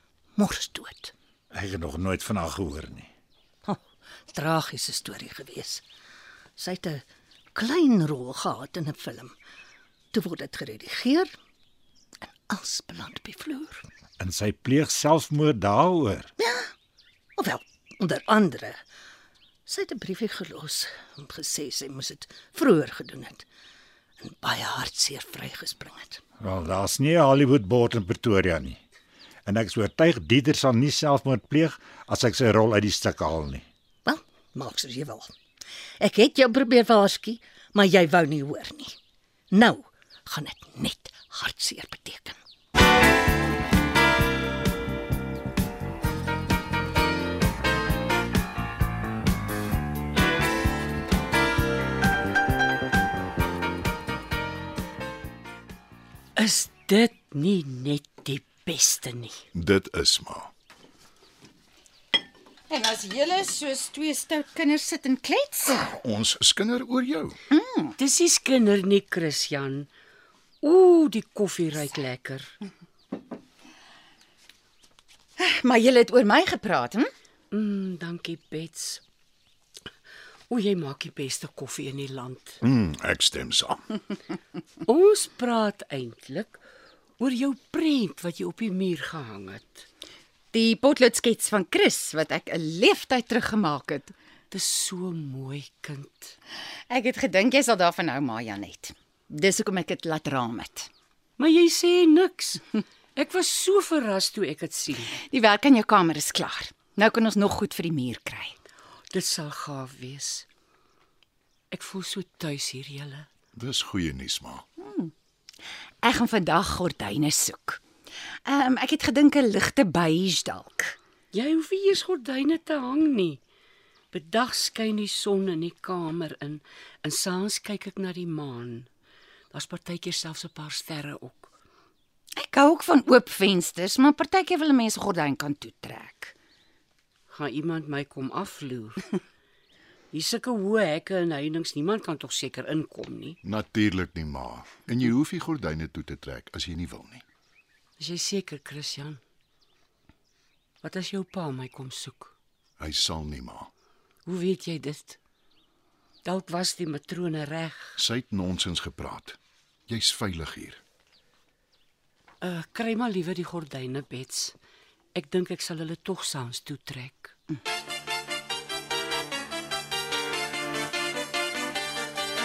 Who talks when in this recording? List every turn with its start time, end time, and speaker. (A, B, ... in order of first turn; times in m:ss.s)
0:00.4-0:01.1 A
0:01.5-0:03.1 B
0:04.3-0:05.8 A
0:06.6-0:07.0 A
0:07.5-0:09.3 A
0:10.1-0:11.3 A
0:12.2-0:13.8 A
0:14.2-0:16.3 B
0:16.4-0:16.7 A
0:17.4-0:18.8 A
0:19.7-0:23.4 A
0:24.2-0:26.2 A
0:26.4-0:28.8 B
0:29.4-0:33.6 B
0:34.0-0:35.3 A
0:36.0-0:39.0 A
0:39.5-0:42.4 A
0:56.4-0:59.4 C
0:59.5-1:00.5 D
1:02.7-1:05.9 E
1:05.8-1:07.4 D
1:07.5-1:07.9 E
1:08.0-1:09.9 C
1:10.6-1:12.6 C
1:15.4-1:17.1 E
1:17.5-1:19.0 C
1:20.5-1:22.6 C
1:22.6-1:24.0 D
1:24.8-1:26.6 C
1:27.2-1:29.8 C
1:30.5-1:34.1 E
1:34.5-1:36.4 C
1:36.9-1:40.9 E
1:41.4-1:45.1 C
1:45.1-1:48.6 E
1:49.1-1:50.4 C
1:51.7-1:53.3 C
1:53.6-1:54.6 D
1:54.8-1:55.1 E
1:56.0-1:57.8 E
1:58.4-2:00.9 E
2:01.3-2:03.4 C
2:04.1-2:08.9 C
2:09.5-2:11.5 C
2:12.4-2:16.3 E
2:17.3-2:19.1 C
2:20.1-2:23.4 C
2:23.4-2:27.2 D
2:28.0-2:29.2 C
2:30.8-2:32.3 C
2:32.8-2:33.7 D
2:34.2-2:35.2 C
2:36.2-2:38.0 C
2:38.0-2:39.4 D
2:39.9-2:40.8 D
2:42.4-2:44.6 C
2:45.1-2:47.3 C